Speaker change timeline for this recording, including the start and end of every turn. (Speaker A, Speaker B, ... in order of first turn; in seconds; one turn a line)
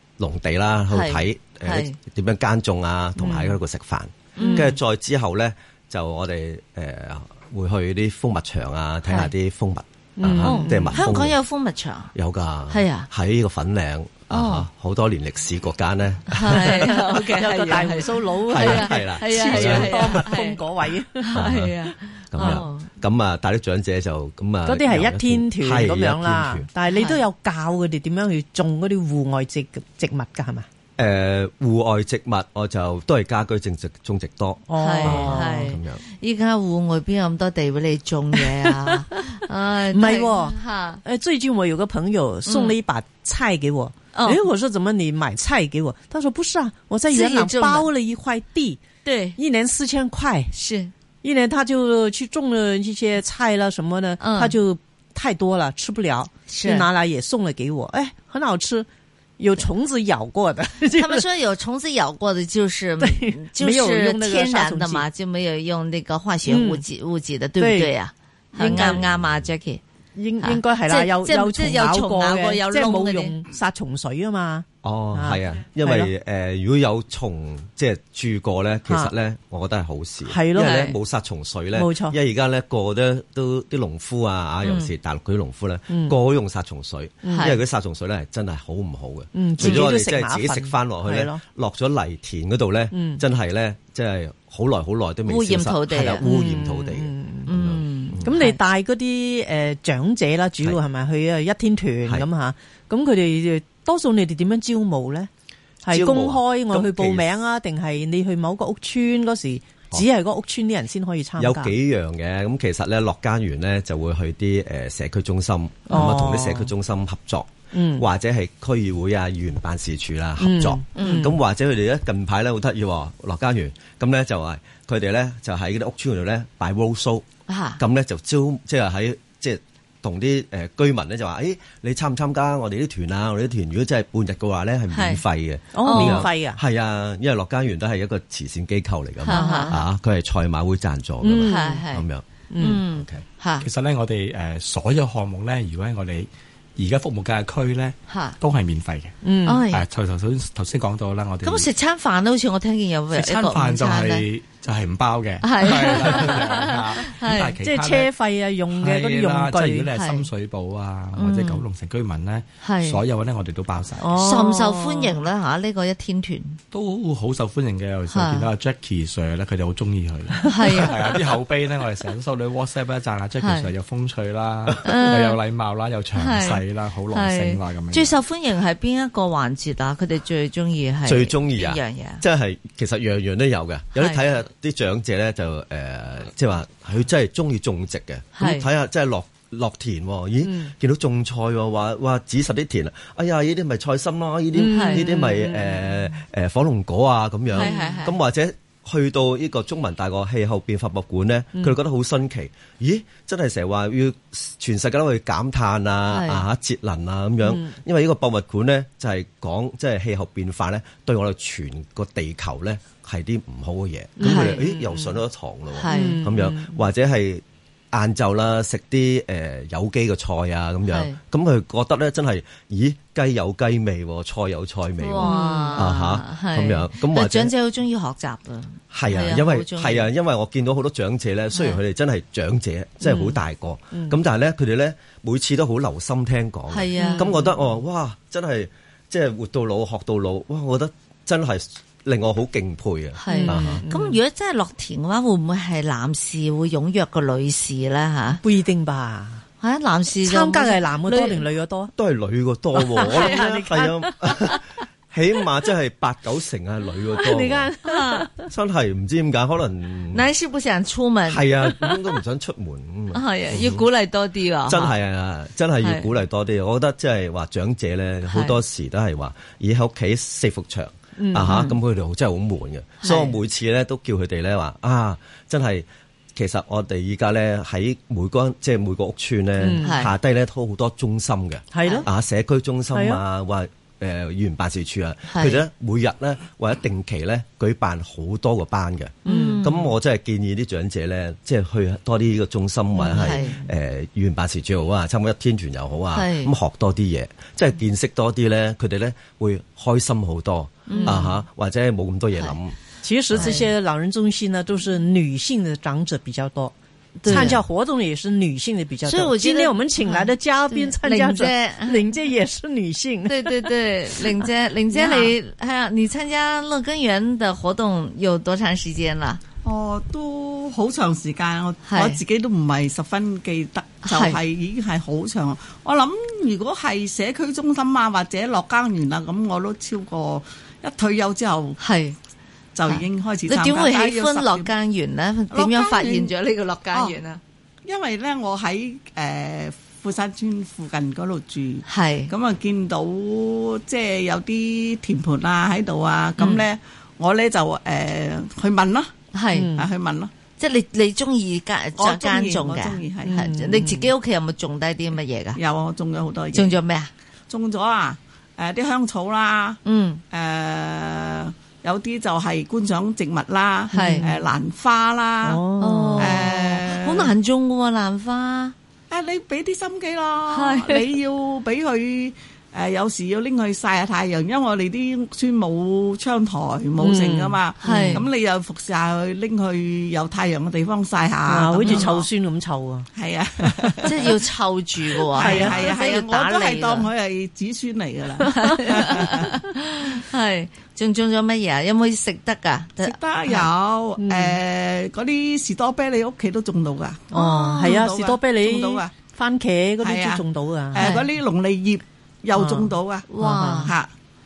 Speaker A: 0.2-11.4
Speaker B: 0.9-1.9
Speaker C: 3.2-3.5
Speaker C: 4.4-4.7
Speaker B: 4.4-4.7
Speaker C: 10.2-11.1
Speaker B: 10.4-12.1
Speaker A: 12.1-16.9
Speaker B: 12.7-13.1
Speaker B: 14.3-14.7
Speaker B: 16.3-20.6
Speaker C: 16.6-21.3
Speaker A: 18.5-20.2
Speaker B: 21.2-22.9
Speaker A: 21.3-21.7
Speaker A: 22.3-26.7
Speaker C: 24.6-30.6
Speaker B: 26.9-27.2
Speaker A: 31.0-36.0
Speaker C: 34.7-35.5
Speaker B: 34.8-41.0
Speaker C: 38.3-39.1
Speaker C: 39.9-48.8
Speaker B: 42.5-42.7
Speaker B: 44.1-44.4
Speaker B: 47.1-47.9
Speaker B: 49.0-49.4
Speaker C: 49.4-50.5
Speaker B: 50.5-50.9
Speaker C: 51.2-58.9
Speaker B: 54.2-54.5
Speaker B: 56.5-56.9
Speaker C: 59.4-61.2
Speaker B: 61.0-69.8
Speaker C: 63.0-65.0
Speaker C: 66.5-66.8
Speaker C: 67.6-67.9
Speaker C: 68.5-69.0
Speaker A: 68.8-69.5
Speaker C: 70.2-76.1
Speaker B: 70.4-73.3
Speaker A: 74.8-98.4
Speaker C: 80.3-80.9
Speaker B: 80.5-81.0
Speaker C: 81.7-82.2
Speaker B: 84.6-84.9
Speaker C: 85.9-86.2
Speaker C: 87.2-87.5
Speaker B: 87.3-87.6
Speaker C: 89.3-91.4
Speaker C: 92.9-93.2
Speaker B: 95.3-96.2
Speaker C: 96.2-97.5
Speaker B: 97.5-98.6
Speaker C: 98.2-105.3
Speaker C: 105.8-111.7
Speaker A: 105.9-107.2
Speaker A: 111.4-127.2
Speaker C: 115.9-116.7
Speaker C: 117.7-118.0
Speaker C: 120.4-121.3
Speaker B: 121.0-121.3
Speaker B: 127.5-127.8
Speaker A: 127.8-142.2
Speaker B: 134.9-135.2
Speaker C: 135.7-136.6
Speaker B: 135.8-136.3
Speaker B: 139.2-139.8
Speaker C: 139.3-139.7
Speaker C: 141.2-141.8
Speaker B: 141.4-142.1
Speaker C: 142.5-142.8
Speaker B: 142.6-143.7
Speaker A: 142.9-143.2
Speaker D: 143.6-151.7
Speaker B: 148.1-148.3
Speaker C: 149.2-149.6
Speaker B: 149.4-149.8
Speaker B: 151.4-154.2
Speaker D: 153.1-158.1
Speaker B: 155.4-157.6
Speaker C: 157.6-159.9
Speaker D: 158.7-164.1
Speaker B: 159.9-160.3
Speaker B: 161.2-161.6
Speaker B: 162.6-163.0
Speaker C: 164.0-165.1
Speaker B: 164.2-166.6
Speaker D: 166.7-178.2
Speaker B: 168.1-168.5
Speaker B: 170.5-171.2
Speaker B: 173.4-173.7
Speaker B: 174.8-175.4
Speaker B: 176.2-182.2
Speaker A: 181.0-227.5
Speaker B: 183.9-184.2
Speaker B: 188.4-188.7
Speaker C: 190.4-190.7
Speaker C: 194.5-195.9
Speaker B: 194.7-195.1
Speaker B: 197.5-198.2
Speaker C: 197.6-198.0
Speaker B: 206.1-206.4
Speaker C: 207.4-207.8
Speaker C: 214.2-215.2
Speaker B: 214.2-214.7
Speaker B: 215.8-216.2
Speaker C: 215.9-216.8
Speaker B: 220.9-221.2
Speaker B: 225.0-230.1
Speaker C: 225.2-225.8
Speaker A: 228.9-243.8
Speaker C: 233.0-233.4
Speaker B: 236.7-237.4
Speaker C: 237.0-237.4
Speaker B: 243.2-248.4
Speaker C: 243.3-244.2
Speaker C: 248.4-249.4
Speaker B: 249.6-251.4
Speaker C: 250.2-251.9
Speaker A: 251.9-257.7
Speaker C: 252.8-254.6
Speaker B: 253.1-253.4
Speaker C: 257.2-258.5
Speaker B: 257.8-258.3
Speaker A: 258.5-260.2
Speaker B: 260.1-262.0
Speaker A: 261.3-263.8
Speaker B: 263.1-264.9
Speaker A: 264.6-302.8
Speaker B: 265.8-266.1
Speaker B: 268.3-268.6
Speaker C: 271.2-271.7
Speaker B: 271.4-271.7
Speaker B: 273.0-273.4
Speaker C: 279.6-279.9
Speaker B: 279.8-280.1
Speaker C: 281.7-282.1
Speaker C: 282.9-283.2
Speaker B: 285.3-285.6
Speaker B: 289.2-289.9
Speaker C: 289.2-289.6
Speaker B: 293.0-293.6
Speaker B: 296.1-296.5
Speaker B: 300.9-301.4
Speaker C: 300.9-301.3
Speaker C: 303.0-306.7
Speaker B: 303.3-303.7
Speaker B: 307.2-307.6
Speaker C: 307.2-315.3
Speaker B: 309.0-312.1
Speaker B: 313.3-319.4
Speaker E: 319.6-331.8
Speaker B: 321.9-322.2
Speaker B: 324.1-324.4
Speaker B: 331.8-332.1
Speaker E: 332.7-334.7
Speaker B: 332.9-337.4
Speaker E: 335.5-336.3
Speaker E: 337.9-349.1
Speaker B: 341.9-342.3
Speaker B: 346.4-346.6
Speaker B: 349.3-349.7
Speaker C: 349.5-349.9
Speaker E: 349.7-350.3
Speaker B: 350.6-355.6
Speaker E: 352.0-353.4
Speaker C: 353.2-354.1
Speaker E: 355.6-356.7
Speaker B: 356.5-357.1
Speaker E: 357.5-359.8
Speaker B: 359.8-360.2
Speaker E: 360.3-365.6
Speaker B: 363.9-364.2
Speaker C: 363.9-364.4
Speaker C: 365.4-366.3
Speaker B: 365.8-368.7
Speaker E: 366.2-367.3
Speaker E: 369.1-382.3
Speaker B: 370.5-371.1
Speaker C: 377.0-378.2
Speaker B: 377.8-378.3
Speaker C: 381.5-383.1
Speaker E: 383.1-384.4
Speaker B: 384.0-387.1
Speaker E: 385.3-389.5
Speaker C: 385.4-385.8
Speaker B: 388.6-393.7
Speaker E: 393.0-397.3
Speaker C: 394.2-394.6
Speaker C: 397.3-401.0
Speaker B: 397.3-398.0
Speaker E: 397.8-399.1
Speaker E: 400.0-403.3
Speaker B: 401.0-401.2
Speaker C: 402.5-403.9
Speaker B: 403.3-403.9
Speaker E: 403.8-404.1